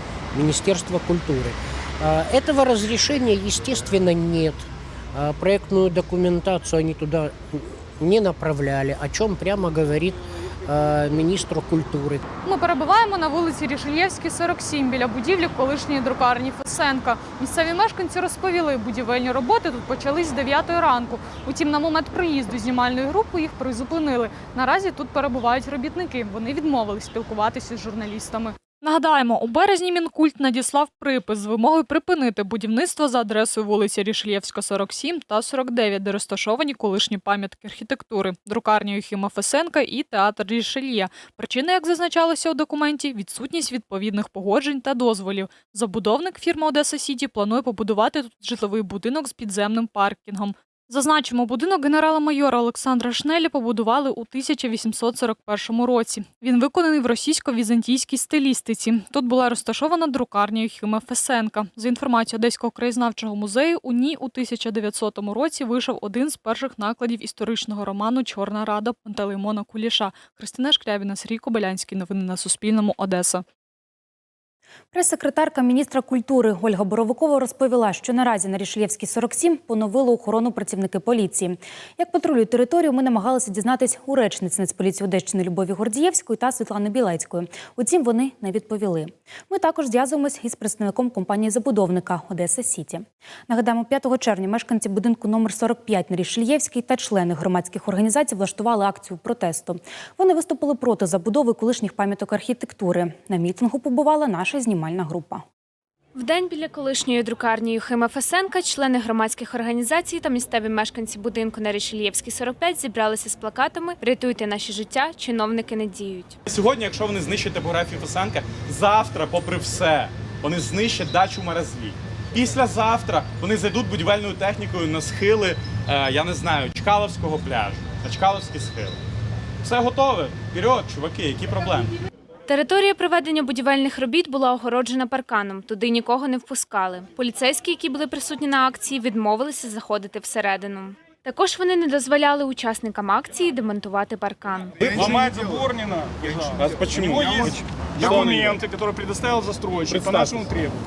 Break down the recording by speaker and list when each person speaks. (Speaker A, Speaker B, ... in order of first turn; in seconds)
Speaker A: 0.3-12.2
Speaker B: 12.4-73.4
Speaker C: 74.9-105.4
Speaker D: 106.2-116.4, 132.5-144.8
Speaker E: 116.5-129.0, 129.6-131.9, 146.5-148.6, 149.9-150.4
Speaker F: 144.8-150.8